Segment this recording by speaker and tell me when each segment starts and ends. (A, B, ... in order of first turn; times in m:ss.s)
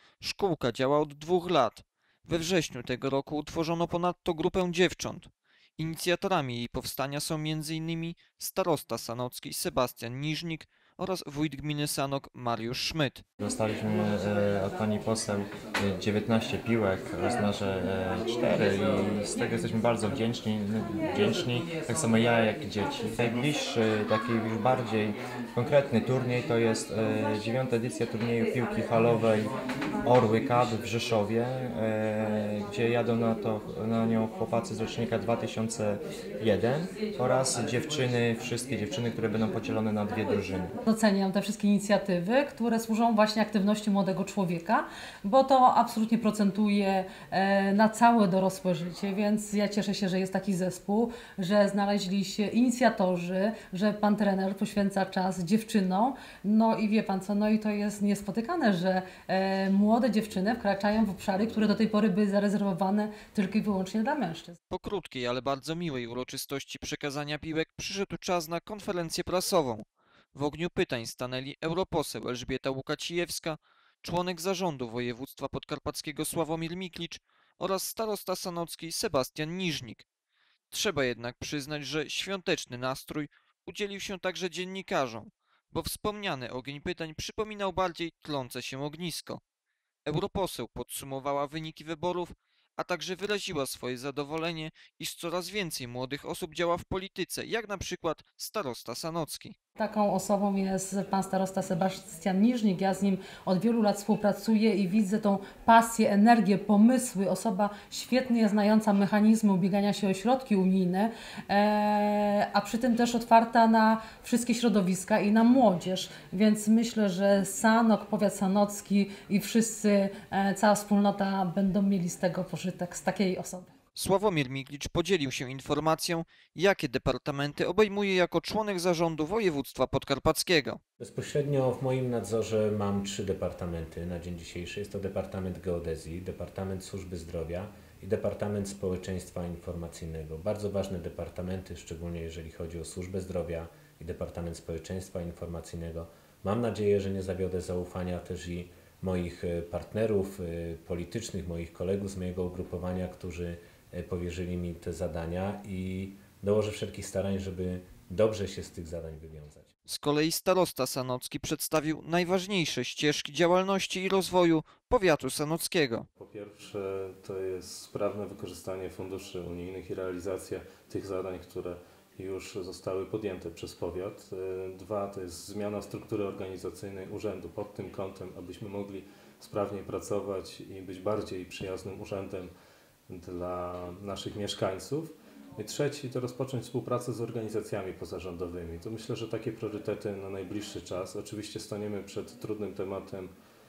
0:00.2-0:13.2 A
0:13.4-0:29.5 B
0:30.0-0:40.7 B
0:40.8-1:04.6 C
1:04.7-1:20.0 A
1:20.7-1:29.4 A
1:30.0-1:39.6 A
1:39.8-2:03.7 C
2:03.9-2:10.8 A
2:11.0-2:39.7 D
2:39.9-2:46.0 A
2:46.2-3:02.5 E
3:03.1-3:13.3 E